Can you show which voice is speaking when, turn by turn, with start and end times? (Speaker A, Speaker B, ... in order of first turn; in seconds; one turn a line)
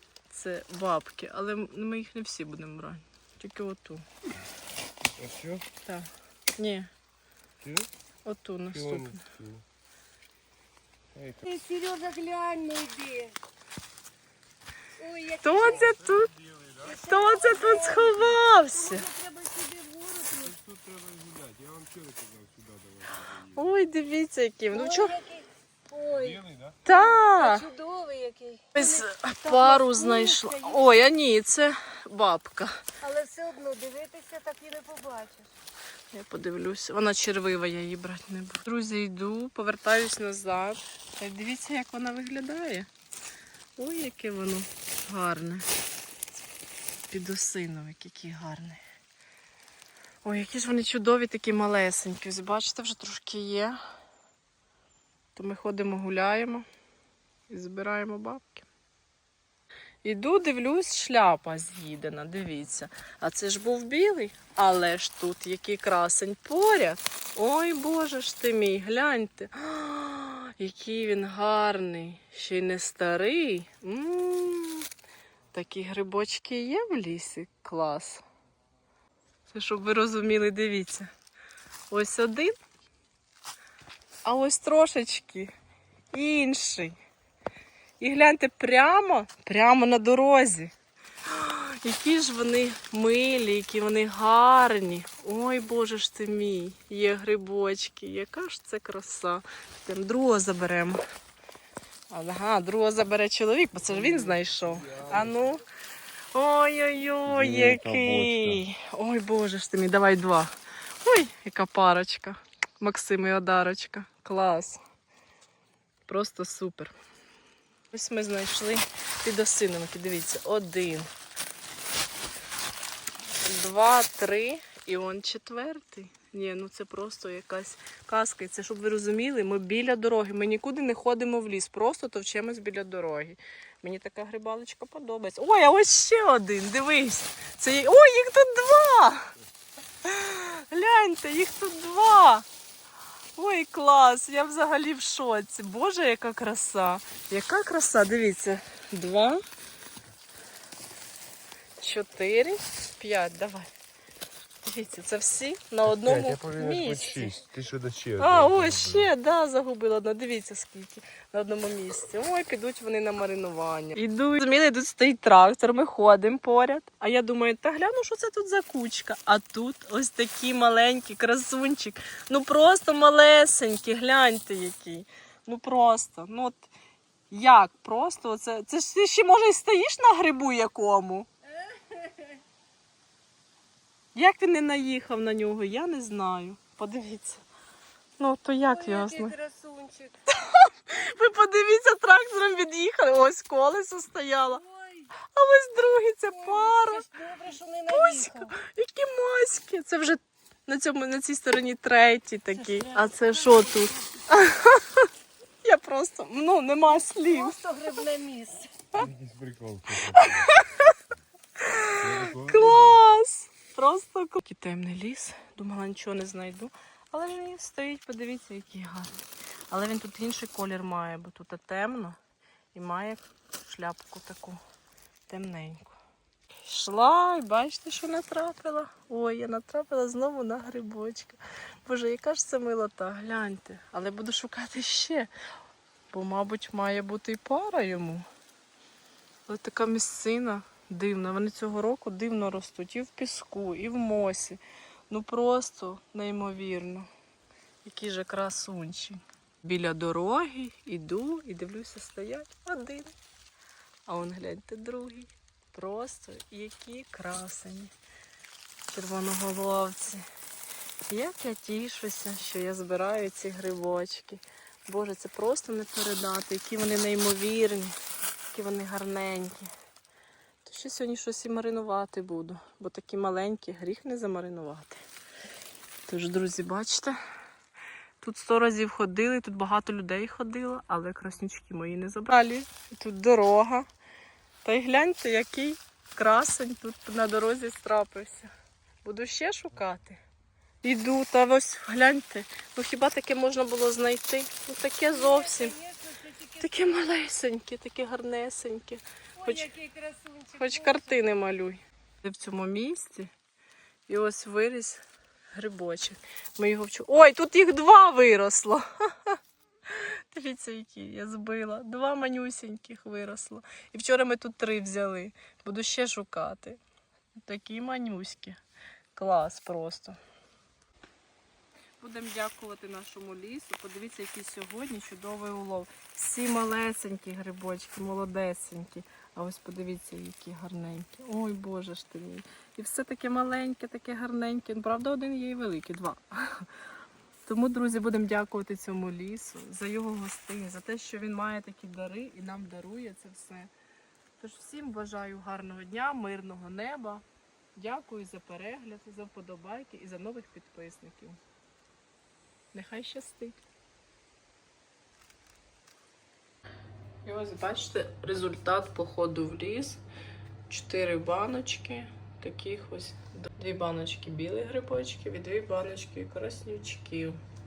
Speaker A: 0.3-4.0
Speaker B: 5.2-5.7
Speaker A: 5.8-6.9
Speaker B: 7.6-7.9
Speaker A: 8.2-9.2
Speaker B: 8.7-9.6
Speaker B: 11.1-11.4
Speaker C: 11.4-13.4
Speaker C: 15.0-16.0
Speaker A: 15.4-16.3
Speaker B: 16.4-16.7
Speaker C: 16.8-20.6
Speaker A: 17.0-19.0
Speaker B: 20.4-23.7
Speaker A: 23.4-25.1
Speaker C: 24.7-31.0
Speaker B: 26.3-26.8
Speaker A: 26.8-27.6
Speaker A: 28.7-32.8
Speaker C: 33.0-35.5
Speaker A: 36.1-42.9
Speaker A: 43.8-45.7
Speaker A: 47.1-48.8
Speaker A: 50.2-53.8
Speaker A: 55.3-56.6
Speaker A: 57.5-58.7
Speaker A: 60.0-74.9
Speaker A: 75.5-78.2
Speaker A: 79.5-81.1
Speaker A: 81.9-82.6
Speaker A: 84.2-85.5
Speaker A: 86.1-87.0
Speaker A: 88.0-90.7
Speaker A: 91.2-101.0
Speaker A: 102.1-105.6
Speaker A: 106.3-114.8
Speaker B: 107.3-108.6
Speaker A: 116.1-116.9
Speaker A: 117.9-121.1
Speaker A: 123.4-139.3
Speaker A: 140.0-142.4
Speaker A: 143.3-149.4
Speaker A: 151.8-153.7
Speaker A: 154.6-157.4
Speaker B: 155.9-159.1
Speaker A: 158.2-176.7
Speaker A: 177.3-181.3
Speaker C: 181.5-182.4
Speaker A: 184.1-187.4
Speaker A: 188.2-189.3
Speaker C: 188.6-190.2
Speaker A: 190.4-194.6
Speaker C: 194.4-195.1
Speaker A: 195.2-197.0
Speaker C: 196.3-198.6
Speaker A: 197.9-205.1
Speaker C: 202.5-204.2
Speaker A: 205.6-207.6
Speaker C: 206.9-208.7
Speaker B: 209.0-210.3
Speaker A: 210.0-210.9
Speaker A: 211.6-219.2
Speaker B: 212.0-213.0
Speaker A: 219.7-222.2
Speaker A: 222.7-224.6
Speaker A: 225.3-226.0
Speaker A: 226.6-235.3
Speaker A: 236.1-238.2
Speaker A: 239.5-247.1
Speaker A: 247.8-253.1
Speaker A: 254.1-257.9
Speaker A: 258.9-260.2
Speaker A: 261.1-267.9
Speaker A: 268.5-269.7
Speaker A: 270.6-275.0
Speaker A: 276.1-277.2
Speaker A: 278.2-283.9
Speaker A: 284.6-288.5
Speaker A: 289.0-290.2
Speaker A: 290.8-295.8
Speaker C: 295.1-297.0
Speaker A: 296.6-299.7
Speaker C: 299.4-301.4
Speaker A: 300.6-303.3
Speaker A: 304.1-316.8
Speaker A: 317.4-318.6
Speaker A: 319.1-320.2
Speaker A: 322.0-336.7
Speaker A: 337.4-343.7
Speaker A: 344.4-347.2
Speaker A: 347.8-351.4
Speaker A: 352.7-353.6
Speaker A: 357.2-360.0
Speaker A: 360.7-367.4